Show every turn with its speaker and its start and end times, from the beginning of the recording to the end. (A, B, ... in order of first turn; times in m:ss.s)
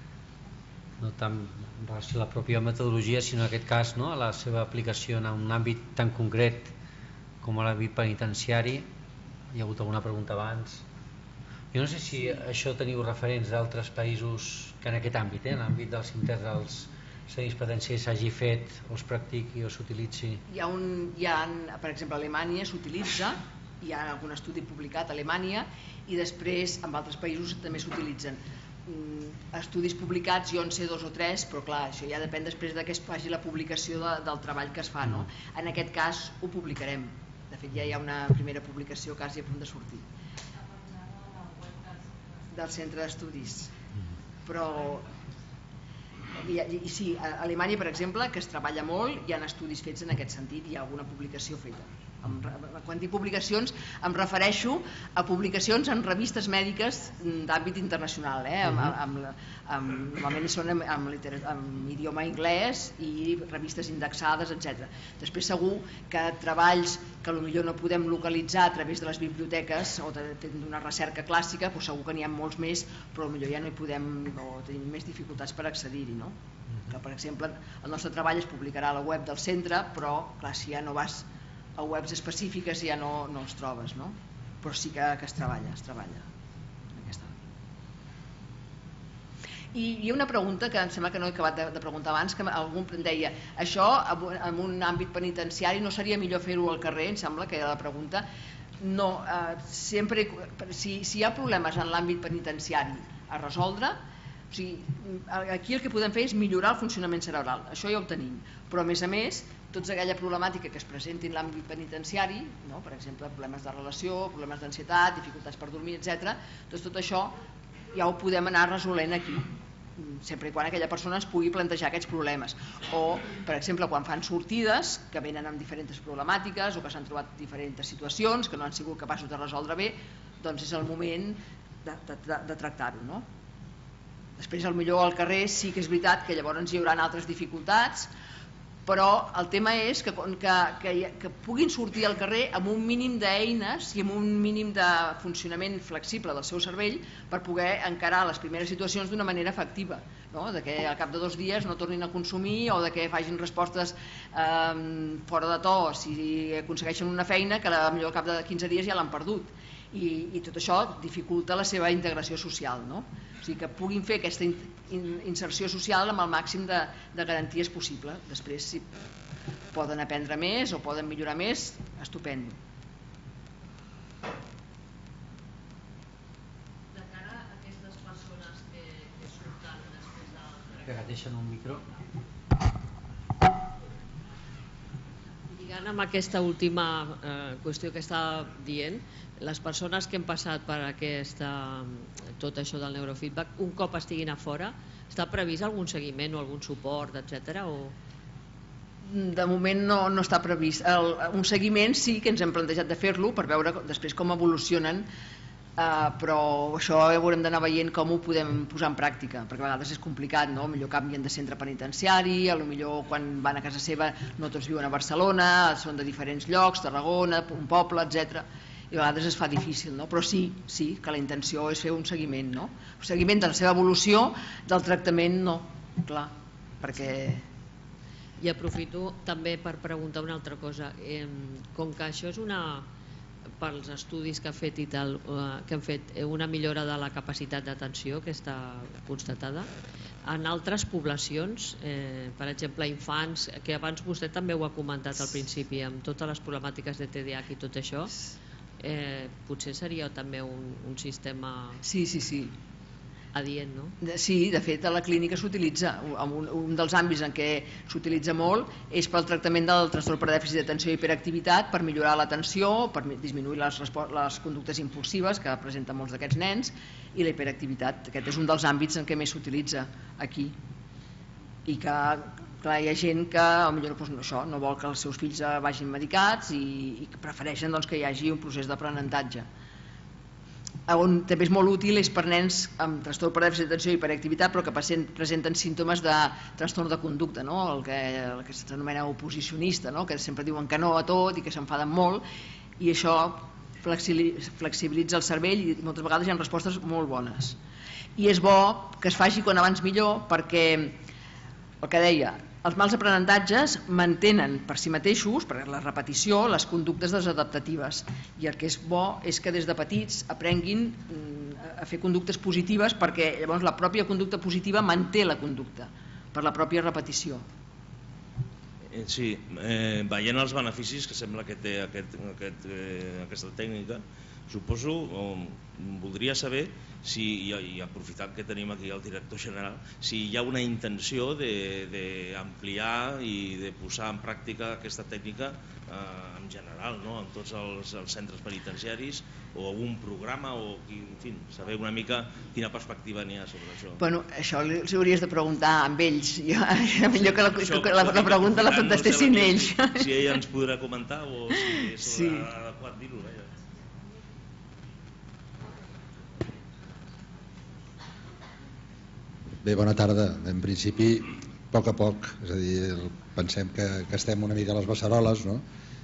0:01.0-0:06.7 A
0:07.4-0:08.9 A
0:09.5-0:10.8 A
0:11.7-0:20.4 A
0:20.5-0:40.0 B
0:42.5-0:43.7 B
0:44.4-0:45.1 B
0:46.4-1:16.3 B
1:16.9-1:26.2 B
1:27.0-1:27.3 B
1:29.7-1:38.2 B
1:38.8-1:44.0 B
1:44.5-1:57.4 B
1:57.9-2:13.2 B
2:14.4-2:18.1 B
2:18.9-2:48.9 B
2:49.7-2:52.6 B
2:56.9-3:00.9 C
3:00.8-3:01.8 A
3:05.5-3:17.9 C
3:19.0-3:25.1 B
3:25.8-3:47.4 B
3:48.4-3:52.9 C
3:53.6-3:59.7 C
4:00.3-4:08.1 C
4:08.8-4:11.8 C
4:11.8-4:12.5 B
4:13.3-4:14.0 C
4:14.0-4:30.5 B
4:31.6-4:39.5 B
4:40.9-4:52.2 B
4:52.8-4:57.6 B
4:58.2-5:01.0 B
5:01.8-5:17.4 B
5:18.9-5:44.0 D
5:44.0-5:50.1 B
5:47.1-5:53.5 D
5:52.0-5:52.4 B
5:59.6-6:05.6 E